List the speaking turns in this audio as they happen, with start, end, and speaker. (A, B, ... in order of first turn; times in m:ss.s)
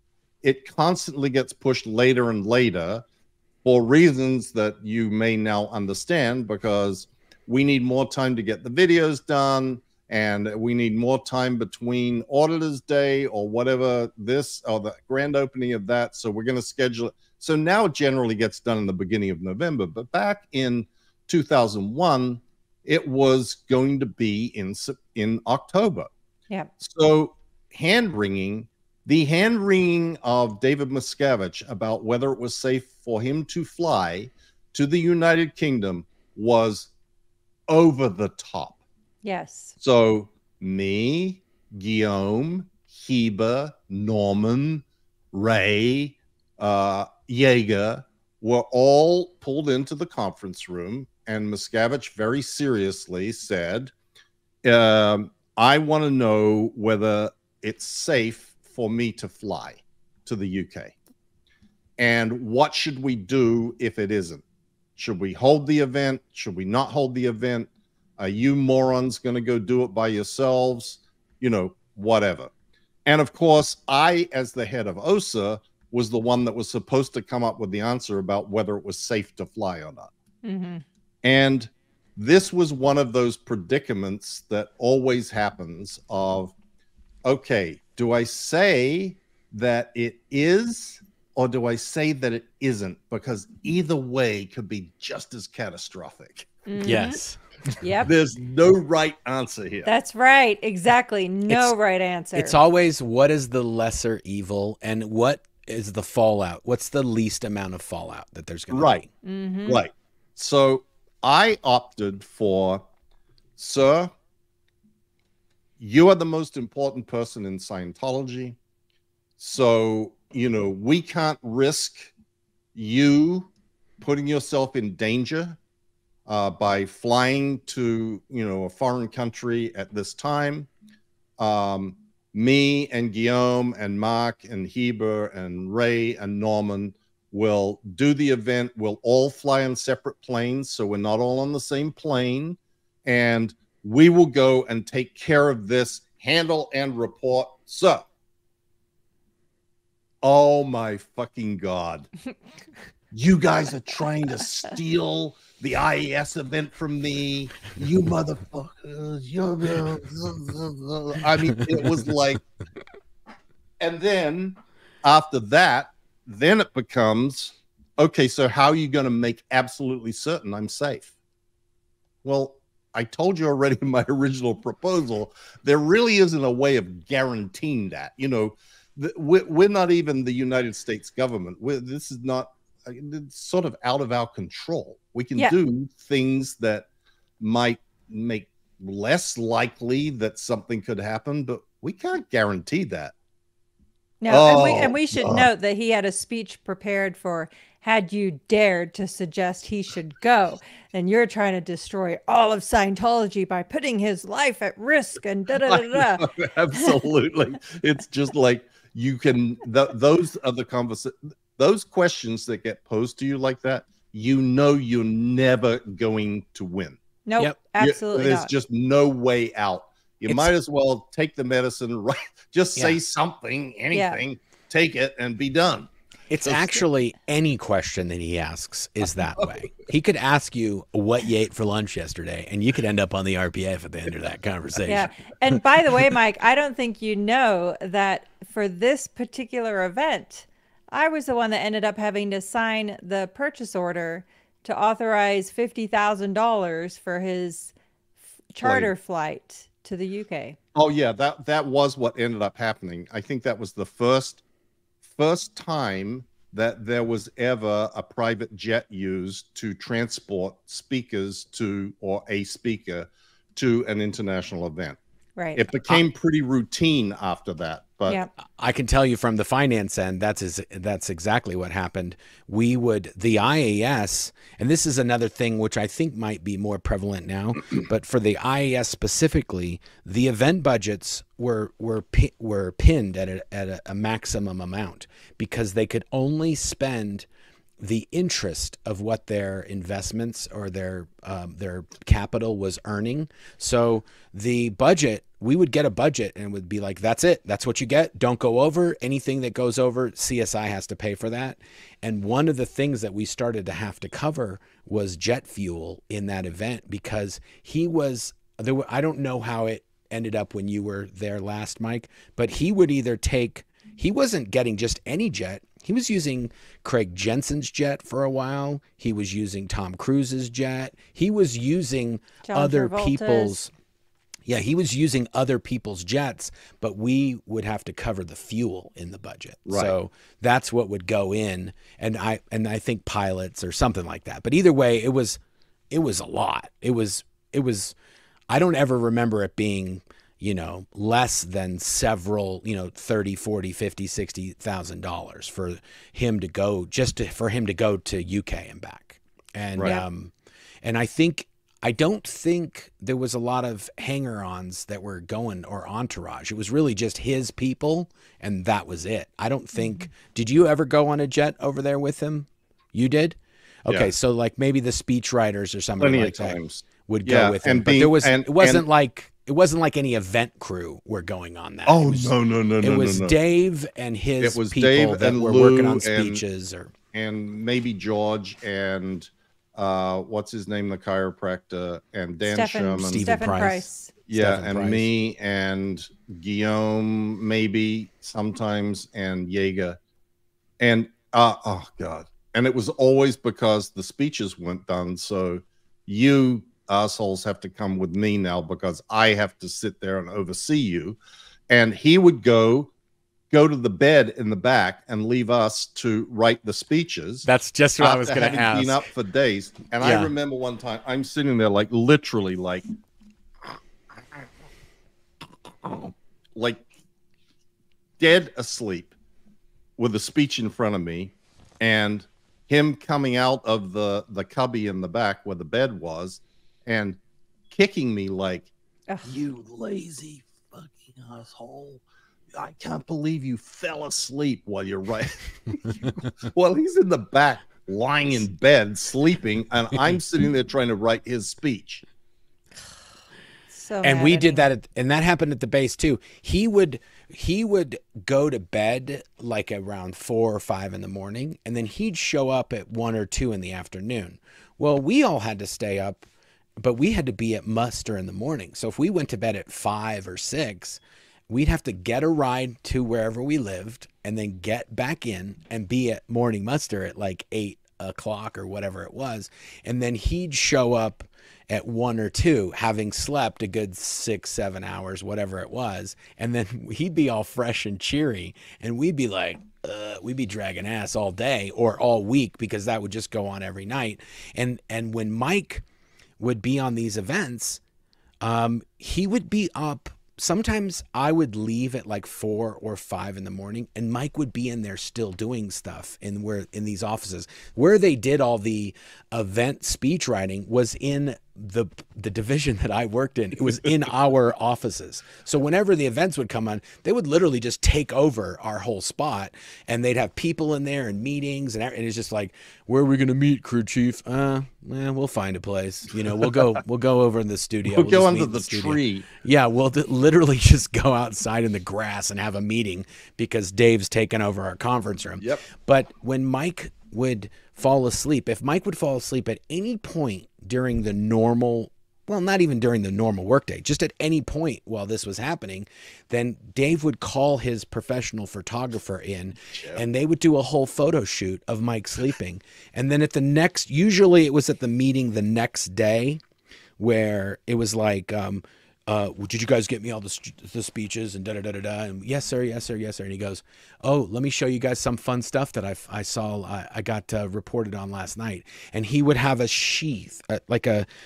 0:00.4-0:03.0 A
0:03.6-0:26.1 A
0:26.8-0:36.9 A
0:37.7-0:38.8 A
0:39.2-0:39.7 B
0:39.8-0:53.9 A
0:54.6-1:01.0 A
1:02.0-1:04.4 A
1:05.0-1:12.5 A
1:13.0-1:20.1 A
1:20.4-1:20.8 B
1:21.2-1:26.5 A
1:27.2-1:36.5 A
1:36.7-1:37.2 B
1:36.8-1:37.4 C
1:37.8-1:38.1 B
1:38.0-1:39.9 A
1:39.9-1:42.6 B
1:42.3-1:49.1 C
1:48.7-1:49.0 A
1:49.2-1:49.8 B
1:49.7-1:52.8 A
1:53.6-1:54.1 A
1:55.8-1:58.6 A
1:59.4-2:02.1 A
2:02.8-2:05.6 A
2:06.3-2:10.7 A
2:11.4-2:28.1 A
2:30.2-2:32.1 A
2:33.1-2:42.4 A
2:43.8-2:51.1 A
2:52.2-3:06.9 A
3:07.4-3:13.1 A
3:14.2-3:27.0 B
3:14.3-3:15.5 A
3:25.7-3:37.0 A
3:37.3-3:38.5 B
3:37.8-3:45.9 A
3:43.9-3:44.2 B
3:46.3-3:55.1 C
3:46.4-3:46.8 A
3:54.9-4:07.7 B
4:08.5-4:10.6 B
4:08.6-4:08.9 A
4:10.8-4:14.4 A
4:15.1-4:25.0 A
4:25.4-4:25.6 B
4:25.6-4:28.2 A
4:28.5-4:47.3 C
4:47.8-5:23.7 C
5:22.5-5:23.6 B
5:24.5-5:35.4 C
5:29.7-5:30.0 A
5:35.9-5:38.0 C
5:38.5-5:50.3 C
5:49.8-5:50.0 A
5:50.8-6:16.9 C
6:06.0-6:08.8 A
6:11.9-6:13.4 A
6:14.4-6:16.4 A
6:17.1-6:23.4 A
6:22.5-6:24.1 B
6:23.1-6:25.1 C
6:24.3-6:30.0 A
6:30.8-6:41.2 A
6:41.7-6:42.9 A
6:43.5-6:47.5 A
6:47.4-6:49.0 C
6:48.0-6:52.8 A
6:50.0-6:50.3 C
6:55.7-6:56.8 A
6:58.2-6:59.1 A
7:00.0-7:07.2 A
7:07.7-7:08.7 A
7:09.2-7:12.0 A
7:12.5-7:22.0 A
7:23.7-7:24.7 B
7:24.0-7:36.3 C
7:36.8-8:05.8 C
8:06.4-8:07.8 C
8:08.4-9:06.4 C
8:37.9-8:39.3 A
8:45.4-8:45.6 A
8:59.7-9:00.0 A
9:07.0-9:21.1 C